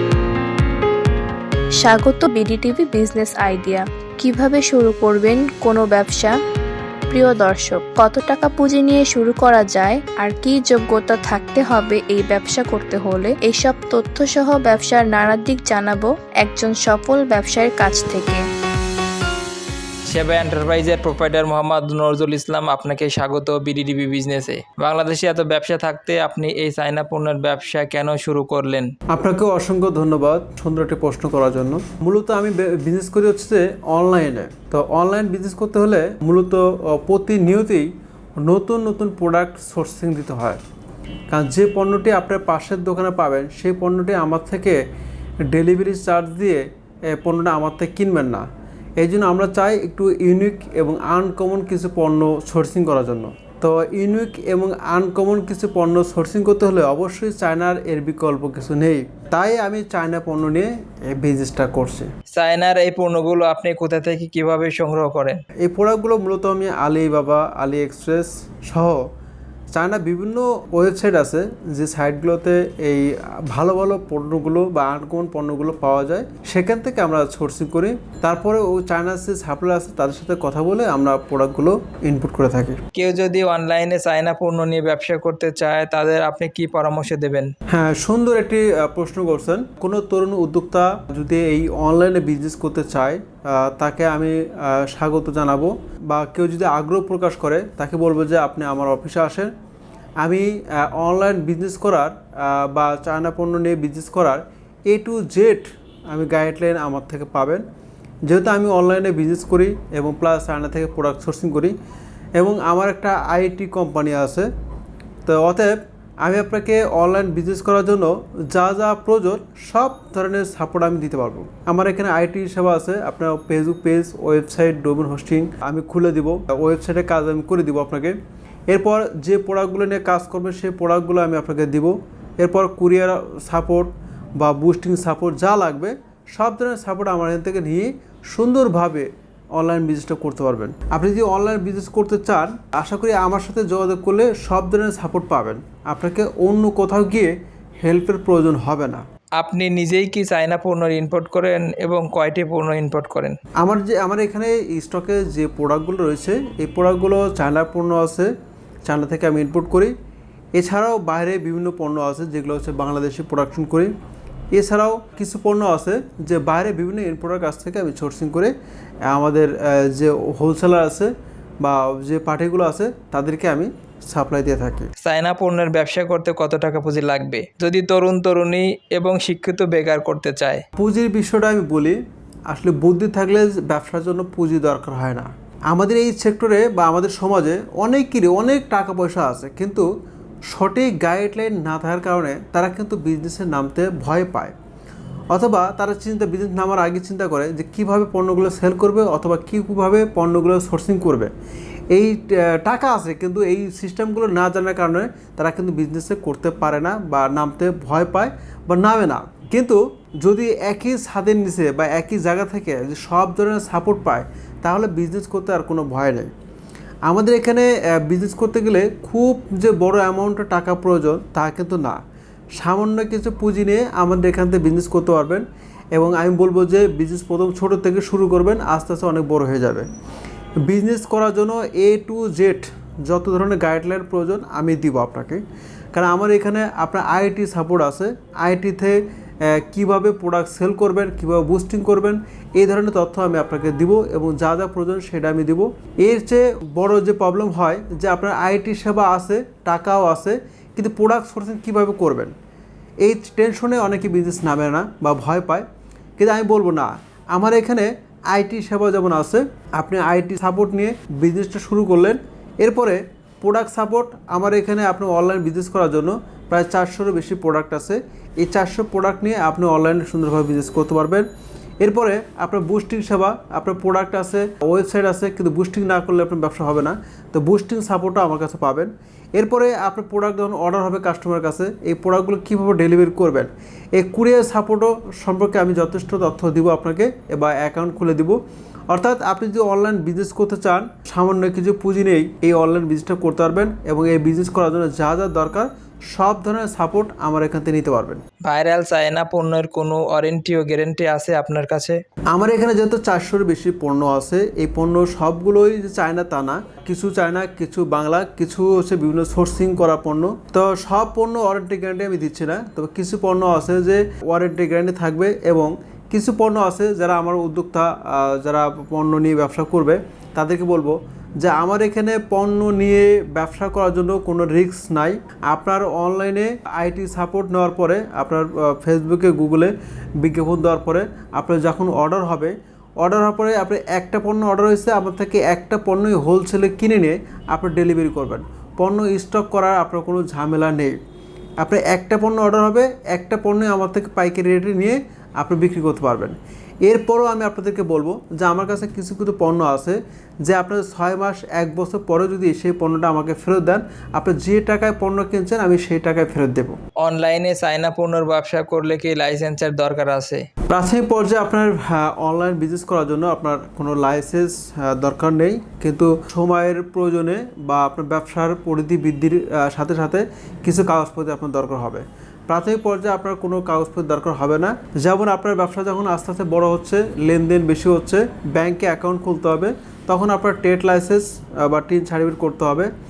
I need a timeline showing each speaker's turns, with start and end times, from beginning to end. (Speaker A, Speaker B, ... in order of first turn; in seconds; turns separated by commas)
Speaker A: 1.8-6.3, Speaker A: 7.1-18.4, Speaker B: 20.1-28.9, Speaker C: 29.1-40.6, Speaker C: 41.3-44.8, Speaker C: 45.5-48.5, Speaker C: 49.0-62.1, Speaker B: 62.3-65.4, Speaker C: 65.6-69.0, Speaker C: 69.7-82.8, Speaker B: 83.0-87.5, Speaker C: 87.7-99.5, Speaker C: 100.2-107.6, Speaker C: 108.3-111.8, Speaker C: 112.4-114.5, Speaker C: 115.2-128.2, Speaker C: 128.7-147.3, Speaker C: 147.8-149.0, Speaker B: 149.4-153.4, Speaker C: 153.6-158.3, Speaker C: 158.8-159.9, Speaker C: 160.5-163.9, Speaker C: 164.5-168.5, Speaker C: 169.1-174.9, Speaker B: 175.0-180.6, Speaker C: 180.8-182.0, Speaker C: 182.5-189.9, Speaker C: 190.5-194.6, Speaker C: 195.3-201.3, Speaker C: 201.9-216.3, Speaker C: 217.1-222.0, Speaker C: 222.6-229.9, Speaker C: 230.6-235.4, Speaker C: 235.9-252.3, Speaker C: 253.0-255.7, Speaker C: 256.2-271.3, Speaker C: 271.8-288.4, Speaker C: 288.9-298.2, Speaker B: 298.4-302.0, Speaker C: 302.3-341.0, Speaker C: 341.6-356.8, Speaker B: 357.0-360.4, Speaker C: 360.7-382.9